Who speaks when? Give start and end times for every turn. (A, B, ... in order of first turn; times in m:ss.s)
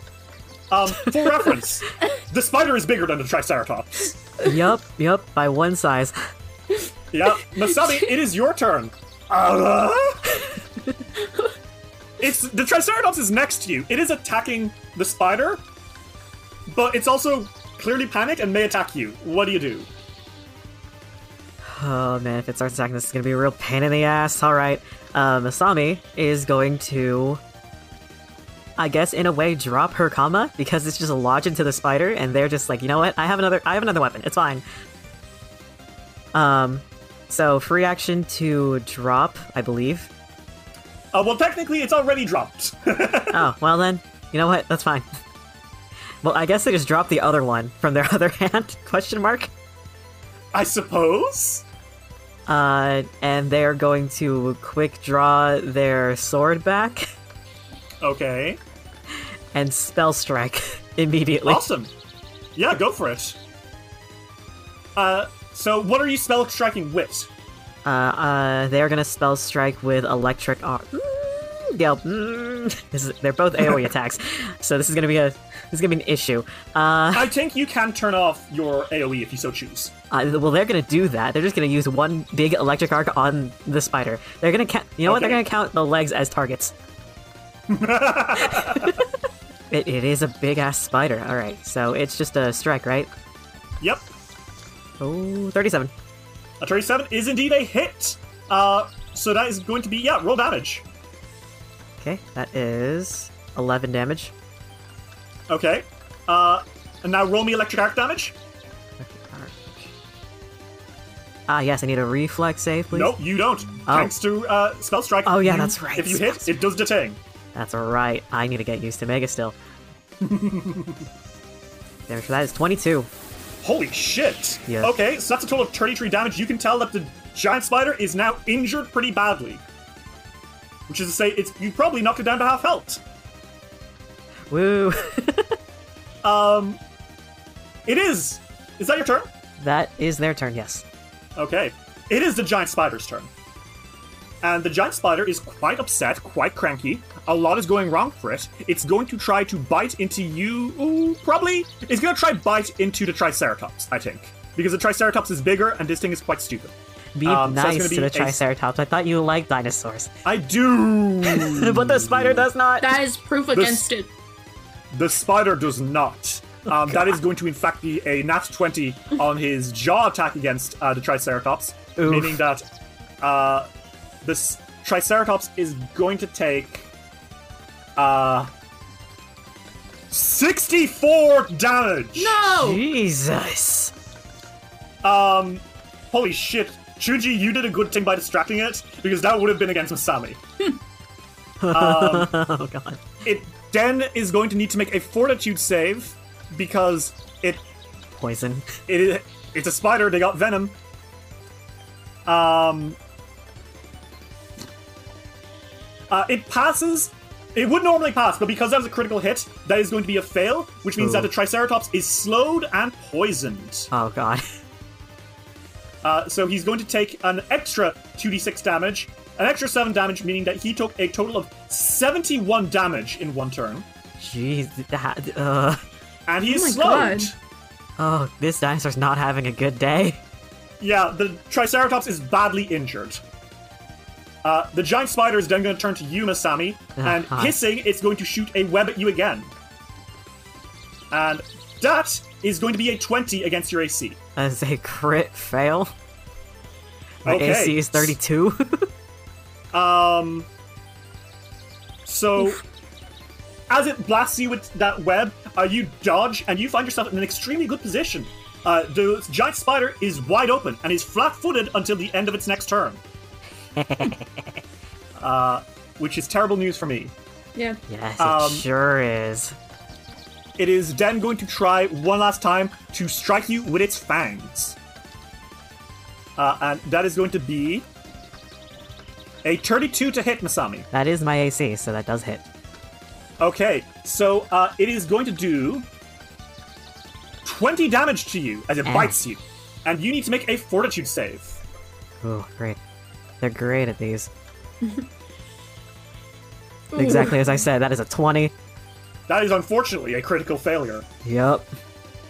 0:00.7-0:04.1 A
0:04.4-0:06.2 B
0:07.1-0:10.4 A
0:11.2-0:11.5 C
0:12.2-0:15.6 A
0:16.7-0:19.9 A
0:21.6-0:27.4 B
0:28.8-0:34.6 B
0:36.3-0:40.1 B
0:41.1-0:43.4 A
0:43.3-0:45.1 B
0:46.2-0:49.5 B
0:50.5-0:51.6 A
0:52.5-0:57.1 B
0:58.0-0:58.6 A
0:59.5-1:01.6 B
1:01.5-1:01.9 A
1:02.6-1:03.4 A
1:05.0-1:07.3 A
1:07.8-1:17.3 B
1:17.1-1:19.9 A
1:20.1-1:26.7 B
1:25.1-1:25.4 A
1:27.7-1:28.9 A
1:28.5-1:29.0 B
1:29.7-1:33.1 B
1:35.0-1:35.9 B
1:36.6-1:40.8 A
1:42.0-1:44.3 B
1:45.5-1:48.4 A
1:49.0-1:49.9 B
1:51.5-1:53.2 B
1:52.9-1:57.2 A
1:53.9-1:54.1 B
1:55.3-1:56.6 B
1:57.6-1:59.6 B
2:00.2-2:01.0 A
2:02.1-2:03.1 B
2:03.6-2:09.6 A
2:04.7-2:04.9 B
2:10.9-2:13.0 A
2:14.5-2:15.6 B
2:16.2-2:16.8 A
2:17.9-2:19.3 A
2:19.6-2:20.8 B
2:21.4-2:23.3 A
2:24.4-2:36.7 A
2:37.2-2:40.1 B
2:37.3-2:38.4 A
2:40.2-2:42.4 A
2:41.3-2:43.0 B
2:42.8-2:44.1 C
2:43.5-2:43.9 A
2:44.9-2:52.6 A
2:52.0-2:52.4 B
2:53.2-2:53.7 A
2:54.2-2:56.9 A
2:58.0-2:58.5 A
3:00.1-3:02.4 A
3:02.2-3:02.8 C
3:02.5-3:03.9 B
3:05.0-3:10.4 A
3:11.6-3:13.1 B
3:11.7-3:12.4 A
3:13.2-3:17.6 A
3:18.2-3:18.8 B
3:18.9-3:20.8 A
3:22.3-3:23.0 A
3:26.1-3:33.9 A
3:31.0-3:31.3 B
3:33.9-3:34.4 B
3:36.0-3:43.9 A
3:44.2-3:45.8 B
3:46.3-3:47.3 A
3:46.4-3:47.3 C
3:48.0-3:50.2 B
3:50.8-3:53.2 A
3:54.4-3:59.5 A
3:57.0-3:57.6 B
4:01.1-4:04.2 A
4:04.4-4:05.9 B
4:07.2-4:08.9 B
4:07.2-4:08.2 A
4:09.7-4:10.5 A
4:12.1-4:12.6 A
4:13.7-4:23.0 A
4:23.8-4:24.5 B
4:25.2-4:27.1 A
4:27.9-4:29.6 B
4:28.2-4:28.6 A
4:30.6-4:34.8 A
4:36.4-4:37.8 A
4:39.4-4:40.9 A
4:40.9-4:42.4 B
4:43.4-4:45.9 A
4:47.4-4:51.6 A
4:48.9-4:49.2 B
4:52.2-4:52.8 B
4:53.4-4:54.3 B
4:56.9-4:57.6 C
4:57.0-4:58.5 B
4:59.3-5:01.1 A
5:01.2-5:01.7 B